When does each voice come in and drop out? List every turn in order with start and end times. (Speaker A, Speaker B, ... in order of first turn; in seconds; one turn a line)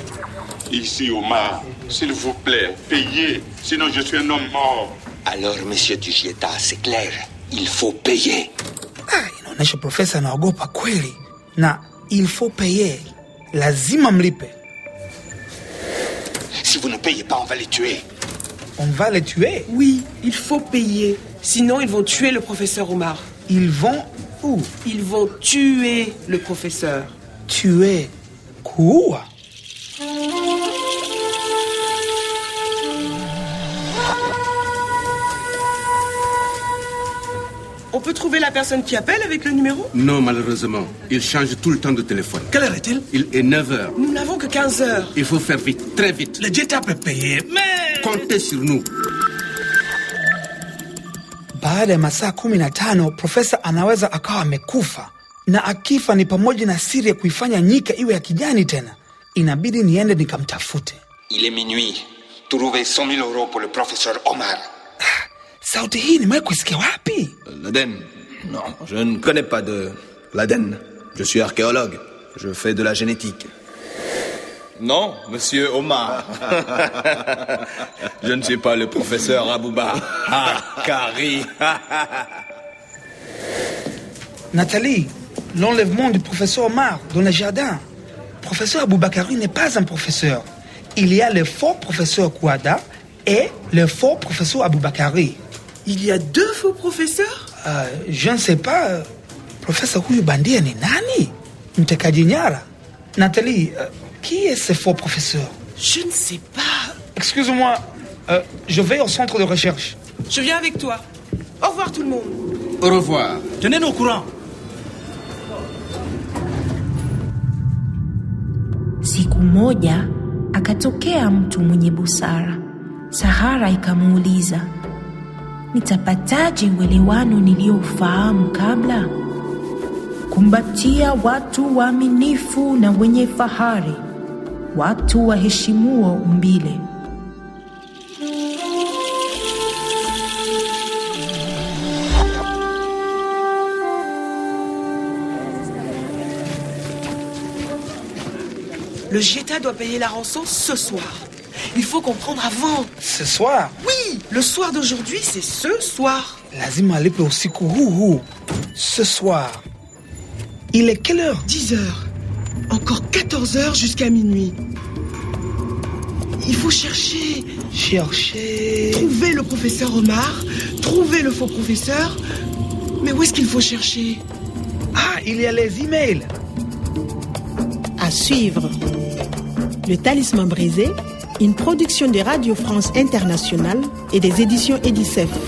Speaker A: 0.7-5.0
Speaker B: 5.2-8.5
Speaker C: 9.1-14.5
Speaker B: 16.6-18.0
Speaker C: 18.8-19.7
Speaker D: 19.7-23.3
Speaker C: 23.5-24.7
Speaker D: 24.8-27.1
Speaker C: 27.5-28.1
Speaker C: 28.6-29.3
Speaker D: 37.9-39.9
Speaker E: 39.9-42.5
Speaker F: 42.5-43.0
Speaker E: 43.1-43.9
Speaker D: 44.0-45.1
Speaker E: 45.1-46.4
Speaker F: 46.4-48.2
Speaker E: 48.0-48.9
Speaker C: 51.6-61.0
Speaker B: 61.3-64.6
Speaker C: 65.6-67.3
Speaker G: 67.5-73.5
Speaker G: 74.8-77.4
Speaker G: 78.2-82.2
Speaker C: 84.5-87.8
Speaker C: 88.4-95.4
Speaker D: 95.8-97.4
Speaker C: 97.6-99.1
Speaker C: 99.6-102.6
Speaker C: 103.2-105.5
Speaker D: 105.8-107.0
Speaker C: 107.2-110.0
Speaker D: 110.3-111.0
Speaker D: 111.6-112.4
Speaker E: 112.8-113.4
Speaker F: 113.6-114.3
Speaker H: 119.0-122.6
Speaker H: 123.1-124.7
Speaker H: 125.7-129.1
Speaker H: 130.3-134.0
Speaker H: 134.7-136.8
Speaker D: 149.1-152.9
Speaker C: 153.0-153.7
Speaker D: 153.8-156.4
Speaker C: 156.5-159.6
Speaker C: 160.7-161.5
Speaker D: 161.4-162.1
Speaker D: 162.7-164.6
Speaker D: 166.4-167.5
Speaker C: 167.7-169.1
Speaker D: 168.9-172.2
Speaker D: 173.0-174.2
Speaker C: 174.9-176.3
Speaker I: 178.0-178.8
Speaker I: 179.8-185.3